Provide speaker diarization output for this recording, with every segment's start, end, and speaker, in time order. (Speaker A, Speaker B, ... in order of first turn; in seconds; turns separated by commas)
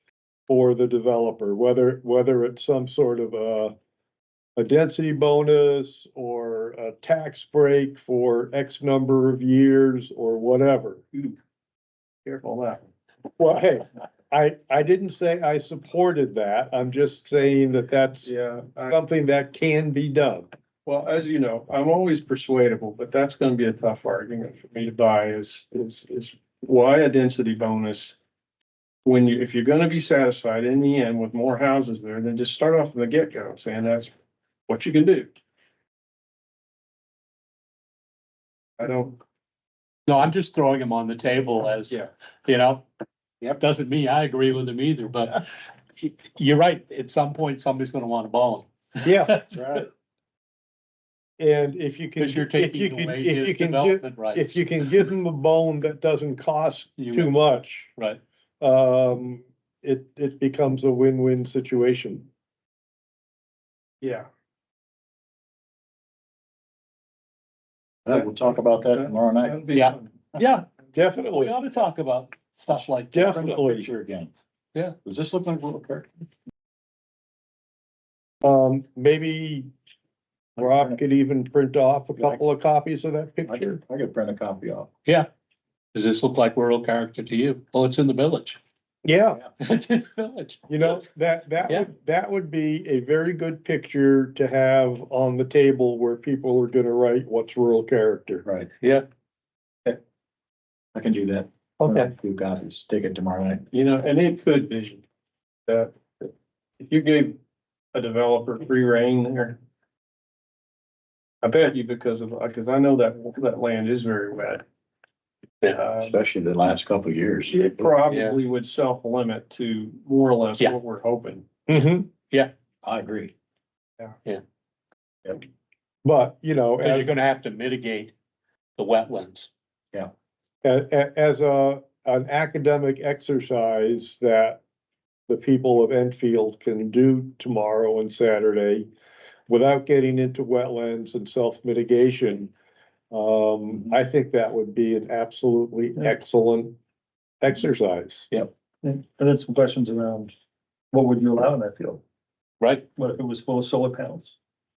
Speaker A: 0.5-3.7, Speaker A: 4.5-11.0, Speaker B: 12.2-12.8, Speaker A: 13.4-18.3, Speaker B: 18.2-18.9, Speaker A: 18.9-20.5, Speaker B: 20.8-28.2, Speaker B: 29.0-34.1, Speaker B: 34.7-35.3, Speaker B: 38.8-39.2, Speaker C: 40.1-42.8, Speaker C: 43.4-45.4, Speaker C: 46.0-49.8, Speaker A: 49.0-49.4, Speaker D: 49.5-49.9, Speaker A: 51.4-57.9, Speaker C: 52.2-55.1, Speaker C: 57.0-57.4, Speaker C: 58.0-58.2, Speaker A: 58.6-62.3, Speaker B: 64.0-64.3, Speaker D: 68.0-69.6, Speaker B: 68.9-70.1, Speaker C: 69.7-70.7, Speaker A: 70.9-71.5, Speaker C: 71.3-73.3, Speaker A: 73.1-73.9, Speaker D: 73.3-74.3, Speaker D: 75.0-76.1, Speaker A: 78.4-79.7, Speaker D: 80.5-81.0, Speaker A: 80.6-83.8, Speaker D: 83.5-84.9, Speaker C: 85.9-88.6, Speaker A: 89.0-89.4, Speaker C: 89.6-90.6, Speaker A: 90.7-98.4, Speaker D: 100.9-103.6, Speaker C: 101.8-102.1, Speaker B: 103.7-105.0, Speaker B: 105.7-107.4, Speaker B: 107.9-109.6, Speaker B: 111.4-114.6, Speaker B: 115.6-116.1, Speaker D: 116.0-117.9, Speaker B: 117.5-121.5, Speaker C: 118.1-118.4, Speaker A: 121.7-122.1, Speaker D: 122.8-123.3, Speaker A: 126.0-127.1, Speaker C: 126.8-128.1, Speaker C: 128.8-129.5, Speaker A: 130.6-134.6, Speaker A: 135.3-138.9, Speaker A: 139.5-142.5, Speaker A: 143.1-146.7, Speaker A: 147.4-148.3, Speaker E: 148.8-150.3, Speaker E: 150.9-152.0, Speaker C: 152.6-152.8, Speaker E: 153.0-154.3